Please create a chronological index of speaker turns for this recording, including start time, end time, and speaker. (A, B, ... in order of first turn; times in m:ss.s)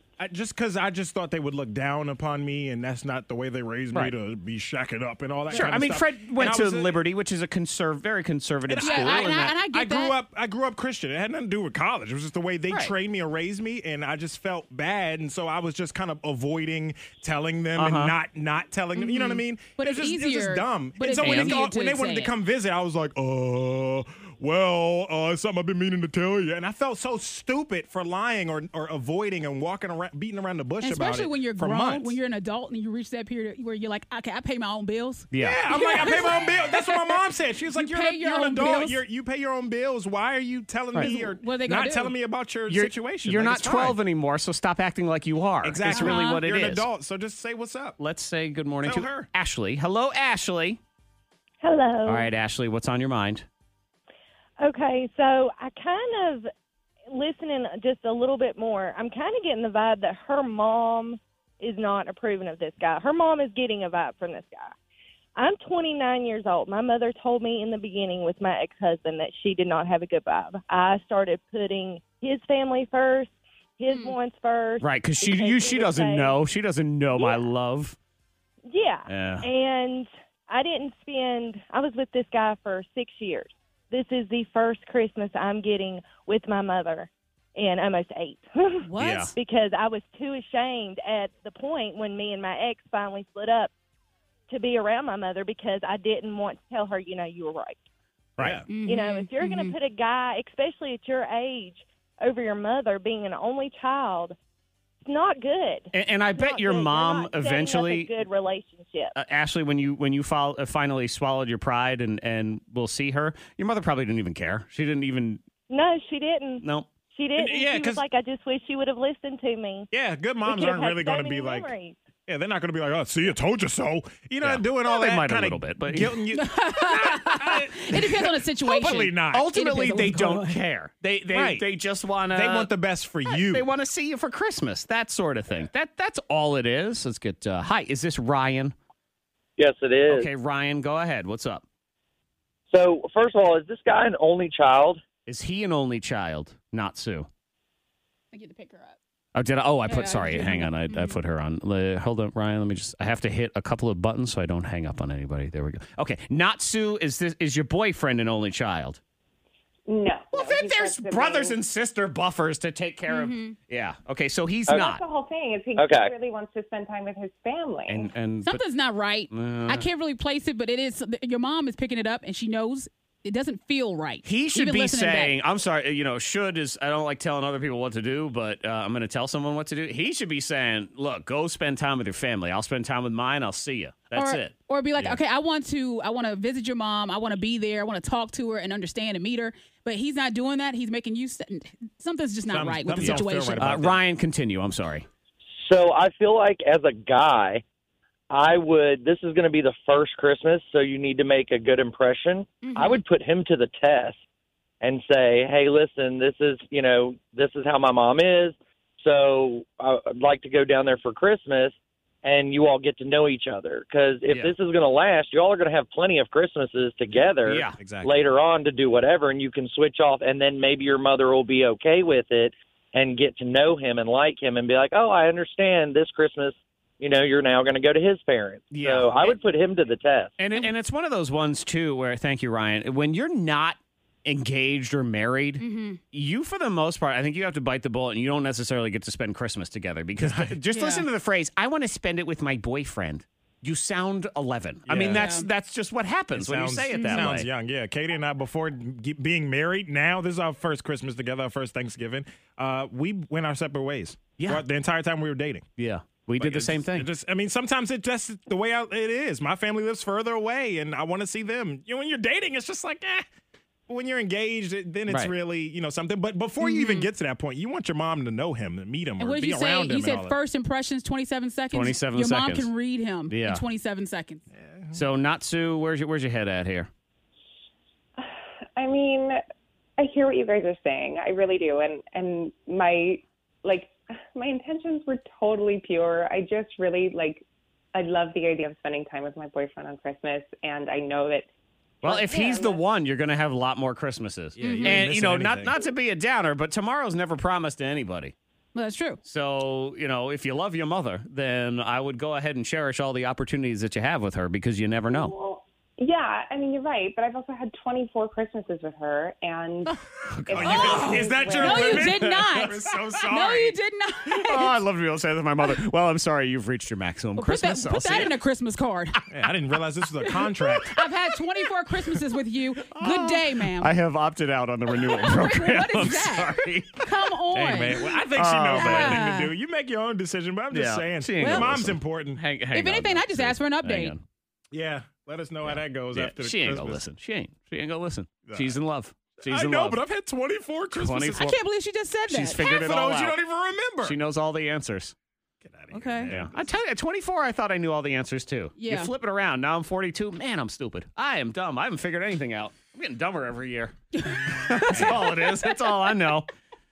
0:00.2-0:07.0 A
0:05.5-0:09.5 B
0:08.7-0:32.2 A
0:08.8-0:10.2 C
0:17.8-0:18.1 B
0:18.9-0:22.3 C
0:21.2-0:21.6 B
0:30.8-0:37.2 C
0:35.3-0:36.1 B
0:35.4-0:44.0 A
0:37.7-0:39.0 C
0:41.0-0:42.1 C
0:42.7-0:46.9 B
0:45.6-0:48.0 A
0:45.9-0:46.4 C
0:48.0-0:50.8 B
0:48.8-0:49.3 A
0:51.6-0:52.3 D
0:52.0-0:53.4 B
0:54.6-0:56.5 D
0:57.1-1:04.7 D
1:05.4-1:16.4 D
1:13.9-1:14.2 C
1:14.8-1:18.0 B
1:17.2-1:17.5 D
1:18.7-1:33.7 D
1:19.1-1:19.5 B
1:28.8-1:29.3 C
1:29.0-1:29.3 B
1:34.5-1:37.8 D
1:38.4-1:38.6 B
1:38.4-1:38.6 A
1:38.7-1:39.7 C
1:38.8-1:44.4 D
1:45.0-1:49.1 D
1:45.9-1:48.1 B
1:49.1-1:55.4 B
1:55.7-1:59.9 D
1:56.6-1:56.9 B
1:57.4-1:58.0 A
1:59.9-2:01.7 A
2:00.4-2:02.0 D
2:02.3-2:09.5 A
2:04.4-2:06.2 B
2:06.3-2:10.6 C
2:08.7-2:12.7 B
2:11.3-2:11.7 A
2:12.3-2:13.7 A
2:13.2-2:18.7 B
2:19.6-2:20.3 E
2:20.1-2:21.6 B
2:22.7-2:25.0 E
2:25.2-2:27.3 B
2:28.3-2:29.0 C
2:29.3-2:39.0 B
2:29.9-2:31.2 C
2:39.9-2:41.6 F
2:40.3-2:45.0 B
2:43.1-2:43.5 C
2:44.7-2:48.1 F
2:45.8-2:46.1 E
2:47.9-2:48.6 B
2:48.4-2:55.4 C
2:49.3-2:49.9 B
2:54.2-3:04.5 B
3:04.1-3:13.7 C
3:12.5-3:14.0 A
3:12.9-3:15.1 B
3:15.6-3:17.6 E
3:18.3-3:24.2 E
3:22.6-3:23.0 C
3:24.8-3:50.3 E
3:34.3-3:34.5 B
3:37.4-3:37.8 B
3:37.8-3:38.2 A
3:48.7-3:49.4 B
3:50.4-4:07.5 B
3:55.6-3:56.0 C
4:00.2-4:00.6 A
4:00.7-4:01.0 C
4:04.9-4:05.3 A
4:05.1-4:05.5 C
4:06.3-4:15.6 A
4:06.9-4:07.3 C
4:14.4-4:14.6 B
4:15.8-4:17.1 B
4:16.4-4:23.2 A
4:23.9-4:30.4 A
4:25.1-4:25.3 B
4:26.6-4:27.1 C
4:29.2-4:34.4 C
4:31.7-4:32.7 B
4:33.3-4:33.6 B
4:34.5-4:35.0 A
4:34.9-4:36.9 B
4:38.2-4:39.4 F
4:40.0-4:51.5 F
4:52.0-4:52.8 F
4:52.0-4:58.3 B
4:54.6-4:55.8 A
4:54.6-4:55.0 C
4:58.7-4:59.2 C
4:59.2-5:05.4 B
5:05.1-5:09.9 F
5:10.3-5:11.3 B
5:10.5-5:12.0 F
5:10.5-5:13.8 A
5:10.6-5:14.8 C
5:14.3-5:18.3 B
5:17.4-5:19.2 C
5:19.3-5:21.0 A
5:20.2-5:23.9 C
5:22.9-5:27.0 B
5:25.0-5:28.2 C
5:27.5-5:32.4 A
5:28.3-5:29.2 B
5:28.7-5:29.5 C
5:30.7-5:34.2 B
5:31.4-5:31.7 C
5:32.7-5:34.1 C
5:34.7-5:37.0 A
5:35.6-5:40.0 B
5:38.5-5:38.8 A
5:39.4-5:41.5 A
5:40.9-5:41.6 B
5:41.4-5:42.7 C
5:42.3-5:43.4 B
5:42.5-5:44.2 A
5:44.0-5:45.1 B
5:45.6-5:46.6 A
5:45.9-5:46.3 C
5:46.3-5:56.5 B
5:48.8-5:49.1 C
5:54.2-5:55.8 C
5:54.9-5:55.3 A